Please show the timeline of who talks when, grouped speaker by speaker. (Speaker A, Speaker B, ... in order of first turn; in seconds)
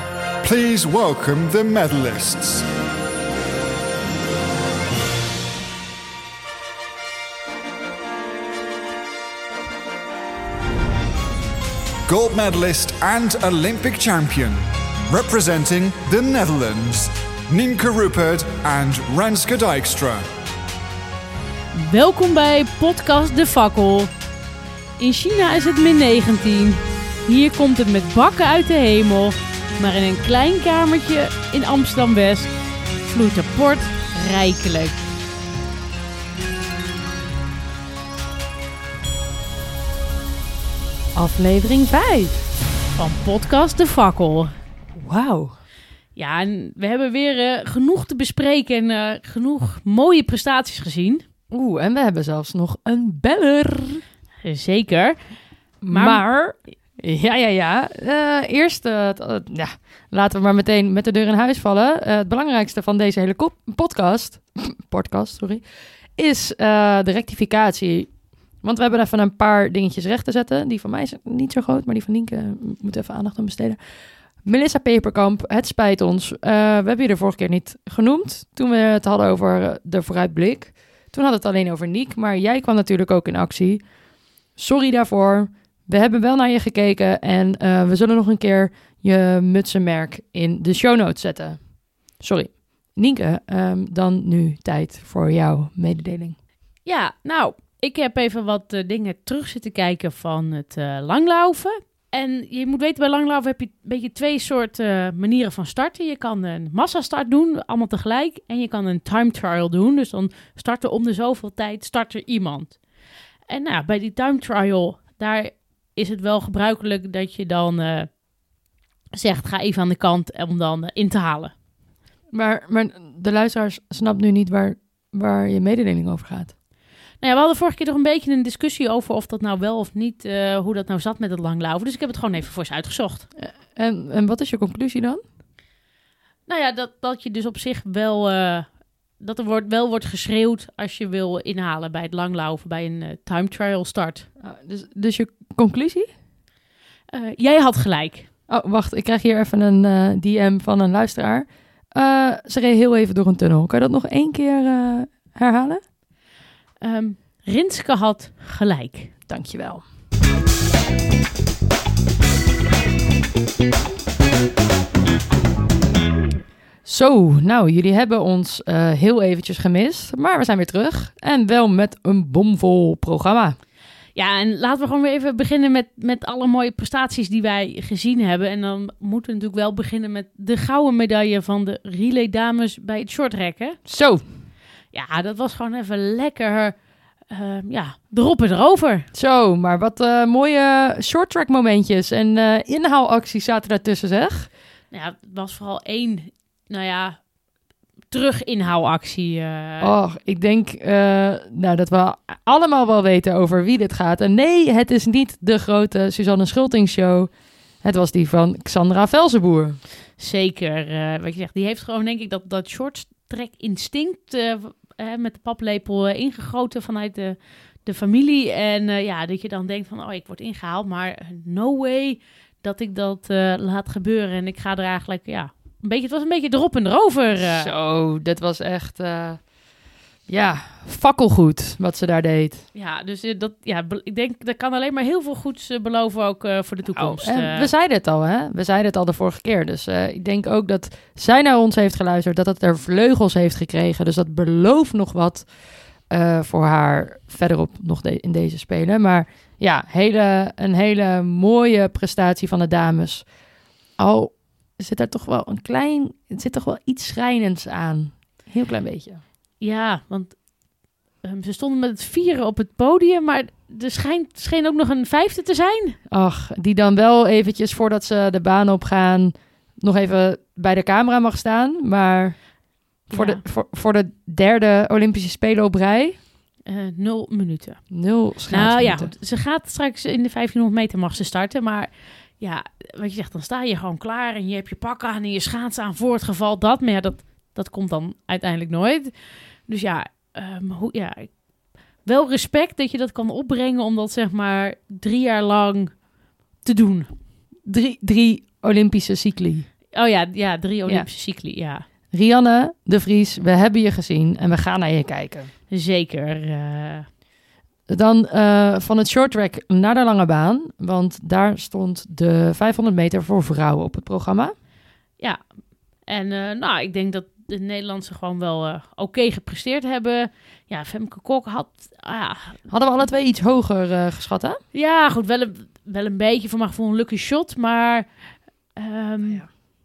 Speaker A: 0.4-2.7, 12.1-14.6, 15.1-20.3
Speaker B: 21.8-24.1, 25.0-32.5, 33.0-35.0, 43.0-44.5, 46.2-51.2, 54.4-56.3, 96.8-118.2, 119.2-121.5, 127.2-133.3, 136.5-144.3, 147.1-148.3, 156.8-159.1, 174.2-183.8, 184.9-189.1, 194.9-197.2, 198.1-199.9, 210.2-227.7, 232.7-237.7, 259.6-260.5, 261.1-266.0, 273.1-273.4, 276.7-296.1, 296.6-297.1, 299.9-301.9, 305.7-307.1, 315.2-322.7, 324.7-329.5
Speaker C: 41.1-42.4, 45.0-45.6, 51.5-54.0, 55.8-73.9, 74.4-83.9, 84.5-96.4, 122.3-126.5, 133.4-135.2, 144.4-146.1, 148.5-155.8, 159.3-159.8, 166.8-173.6, 183.9-184.3, 189.1-194.5, 199.8-209.8, 227.5-229.5, 230.3-232.7, 236.9-253.3, 254.0-259.2, 266.1-276.2, 277.9-279.1, 297.6-299.7, 302.1-305.5, 307.9-314.6, 322.7-324.6, 329.3-329.6